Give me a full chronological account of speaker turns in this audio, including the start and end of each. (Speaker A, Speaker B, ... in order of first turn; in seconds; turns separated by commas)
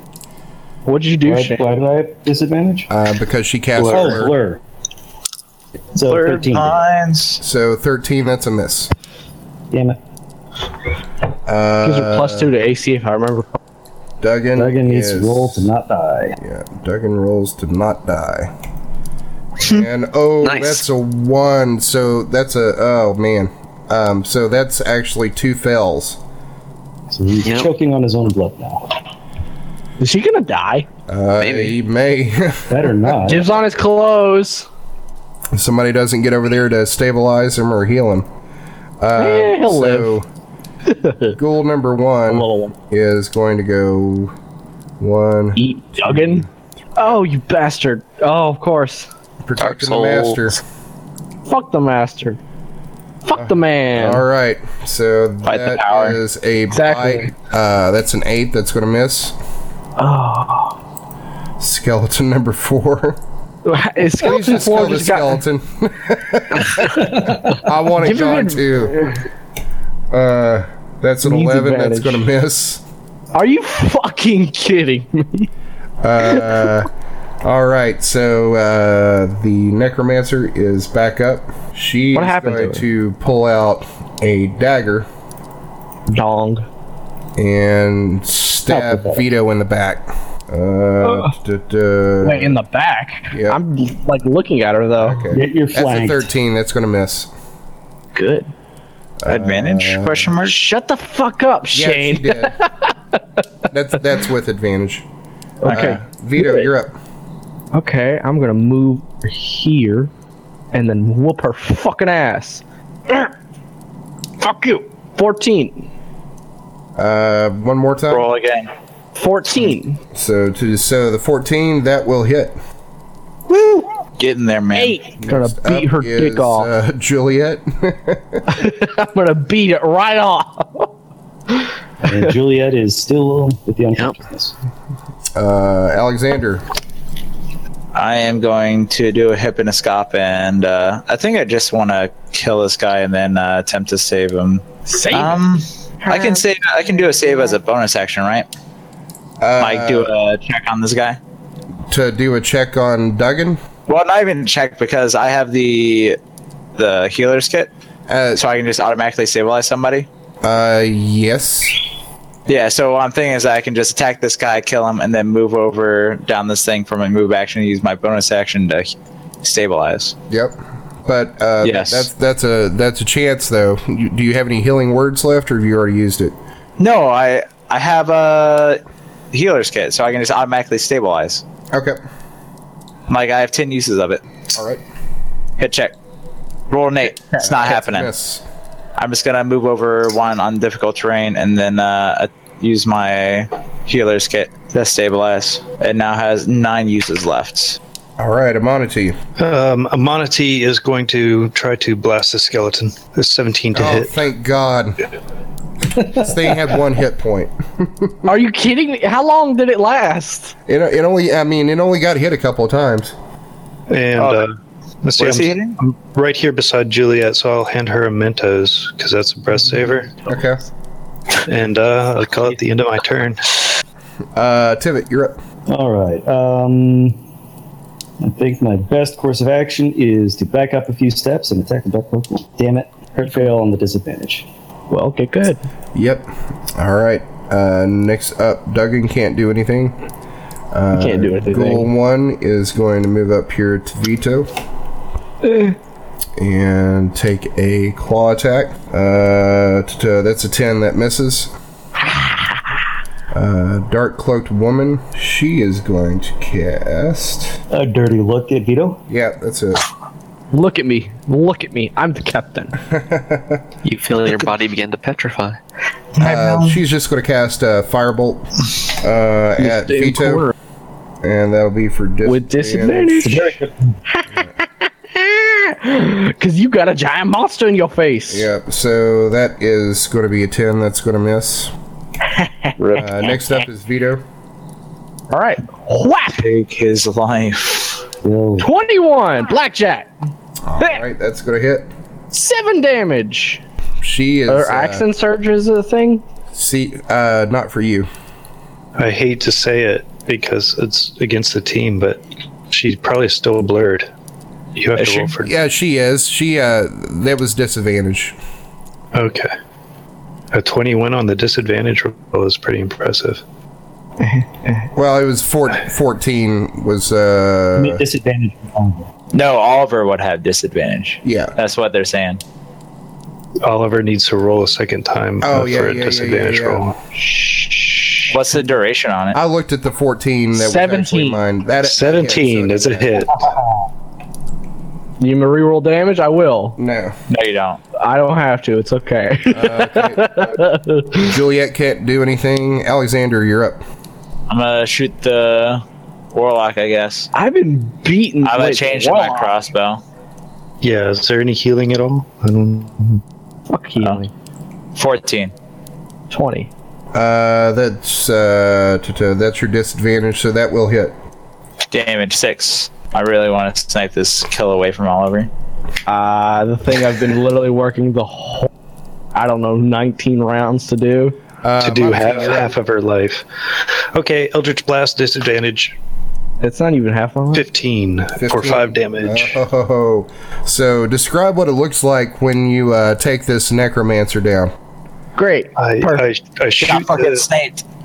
Speaker A: 0.8-1.7, Speaker B: 1.2-2.9, Speaker C: 2.9-4.3, Speaker D: 3.8-4.2, Speaker B: 3.8-4.6, Speaker B: 5.9-6.8, Speaker E: 6.0-7.4, Speaker C: 7.4-8.9, Speaker B: 9.7-10.0, Speaker C: 11.4-12.5, Speaker A: 11.8-13.6, Speaker C: 14.2-15.7, Speaker B: 14.6-16.4, Speaker C: 16.4-18.5, Speaker C: 19.6-26.2, Speaker F: 20.4-20.8, Speaker B: 27.1-28.9, Speaker F: 27.4-27.7, Speaker A: 30.0-30.9, Speaker C: 31.1-33.1, Speaker F: 31.4-31.7, Speaker B: 32.7-33.5, Speaker A: 33.2-34.6, Speaker C: 35.5-38.3, Speaker C: 39.0-40.2, Speaker A: 39.2-40.1, Speaker A: 40.9-41.4, Speaker C: 41.4-44.3, Speaker A: 42.3-42.7, Speaker C: 45.0-47.1, Speaker A: 45.5-49.1, Speaker C: 49.4-50.6, Speaker F: 49.6-50.5, Speaker A: 51.5-52.4, Speaker A: 53.2-54.2, Speaker C: 53.3-59.4, Speaker E: 55.4-56.2, Speaker A: 56.7-57.3, Speaker A: 60.0-60.8, Speaker C: 61.6-63.2, Speaker A: 63.6-65.4, Speaker C: 64.2-69.0, Speaker A: 68.0-69.2, Speaker C: 70.1-72.8, Speaker A: 71.2-72.2, Speaker A: 73.3-75.5, Speaker C: 76.0-76.9, Speaker A: 76.2-76.6, Speaker C: 77.4-85.1, Speaker A: 82.1-82.8, Speaker A: 86.1-86.6, Speaker C: 87.4-92.6, Speaker B: 88.7-89.2, Speaker A: 91.0-91.3, Speaker A: 92.2-95.2, Speaker C: 93.3-93.6, Speaker C: 95.0-97.3, Speaker B: 95.3-96.3, Speaker A: 98.1-98.5, Speaker C: 99.2-100.3, Speaker E: 99.3-100.6, Speaker A: 100.4-103.2, Speaker C: 101.7-102.6, Speaker C: 103.7-105.0, Speaker A: 105.6-106.7, Speaker E: 105.7-106.0, Speaker C: 105.7-107.0, Speaker A: 107.7-110.1, Speaker A: 110.7-113.3, Speaker A: 114.4-115.9, Speaker C: 117.0-118.2, Speaker E: 118.1-118.7, Speaker A: 119.1-120.0, Speaker C: 120.1-122.6, Speaker E: 123.5-125.0, Speaker A: 124.7-126.7, Speaker C: 125.2-128.4, Speaker A: 128.5-130.9, Speaker A: 131.5-132.2, Speaker B: 132.0-134.5, Speaker C: 135.3-136.6, Speaker E: 137.9-148.5, Speaker A: 144.9-145.4, Speaker A: 146.0-146.4, Speaker C: 149.4-150.1, Speaker E: 149.6-151.2, Speaker C: 151.9-153.6, Speaker E: 153.9-156.2, Speaker E: 156.8-157.7, Speaker C: 158.1-158.4, Speaker E: 158.3-160.1, Speaker C: 160.4-161.8, Speaker E: 162.4-170.2, Speaker C: 170.3-176.3, Speaker E: 171.6-172.1, Speaker E: 176.8-181.4, Speaker C: 181.7-182.0, Speaker E: 183.1-184.2, Speaker C: 184.5-184.8, Speaker E: 185.6-185.9, Speaker E: 186.7-188.1, Speaker C: 187.4-188.4, Speaker E: 189.0-197.8, Speaker C: 198.2-199.2, Speaker D: 199.4-204.2, Speaker C: 203.7-205.0, Speaker C: 206.0-208.3, Speaker A: 208.2-210.5, Speaker C: 210.7-213.1, Speaker D: 213.9-220.2, Speaker E: 214.2-214.4, Speaker E: 215.2-215.8, Speaker C: 220.3-220.6, Speaker D: 221.5-223.8, Speaker C: 224.3-225.4, Speaker B: 225.7-227.2, Speaker B: 228.2-234.5, Speaker A: 233.3-233.5, Speaker A: 234.9-235.6, Speaker C: 235.9-240.0, Speaker C: 240.7-244.5, Speaker A: 240.9-241.9, Speaker A: 245.4-245.8, Speaker C: 246.4-251.5, Speaker A: 252.2-252.5, Speaker C: 253.3-257.6, Speaker B: 257.7-259.0, Speaker C: 259.1-259.8, Speaker A: 260.5-262.8, Speaker C: 262.9-263.6, Speaker F: 263.8-265.6, Speaker E: 266.1-266.8, Speaker C: 266.2-270.5, Speaker A: 269.6-270.5, Speaker C: 271.2-273.3, Speaker A: 272.2-273.6, Speaker B: 273.2-274.0, Speaker A: 274.1-278.5, Speaker C: 278.3-281.7, Speaker A: 282.3-282.8, Speaker E: 282.8-283.3, Speaker C: 283.0-284.2, Speaker A: 285.3-286.4, Speaker E: 286.4-288.0, Speaker B: 288.2-288.7, Speaker A: 288.6-290.1, Speaker C: 290.6-291.9, Speaker A: 292.3-293.6, Speaker C: 294.0-295.0, Speaker A: 294.5-296.2, Speaker C: 296.5-298.1, Speaker D: 298.9-304.1, Speaker D: 304.7-305.5, Speaker E: 305.0-305.3, Speaker C: 305.4-308.4, Speaker D: 309.1-309.5, Speaker D: 310.5-313.4, Speaker A: 314.2-314.9, Speaker C: 314.9-318.0, Speaker B: 317.8-319.1, Speaker E: 319.3-322.4, Speaker C: 321.2-321.5, Speaker D: 323.6-327.0, Speaker C: 325.4-326.8, Speaker A: 327.2-328.3, Speaker E: 328.3-329.4, Speaker C: 329.3-333.3, Speaker A: 330.5-331.4, Speaker D: 331.8-333.4, Speaker A: 335.2-336.8, Speaker C: 336.8-337.2, Speaker E: 337.3-337.8, Speaker A: 338.0-341.3, Speaker C: 339.5-340.6, Speaker C: 341.2-343.8, Speaker E: 344.5-347.3, Speaker A: 347.3-349.5, Speaker E: 348.4-350.0, Speaker D: 350.8-353.2, Speaker A: 353.7-354.3, Speaker E: 354.9-355.5, Speaker A: 356.3-356.7, Speaker C: 357.1-361.1, Speaker E: 361.9-365.5, Speaker A: 366.1-368.7, Speaker A: 369.3-371.4, Speaker C: 371.6-372.7, Speaker D: 371.8-375.9, Speaker A: 376.6-377.6, Speaker D: 377.5-379.6, Speaker C: 378.4-384.7, Speaker A: 385.4-386.3, Speaker D: 385.8-387.4, Speaker E: 386.8-387.8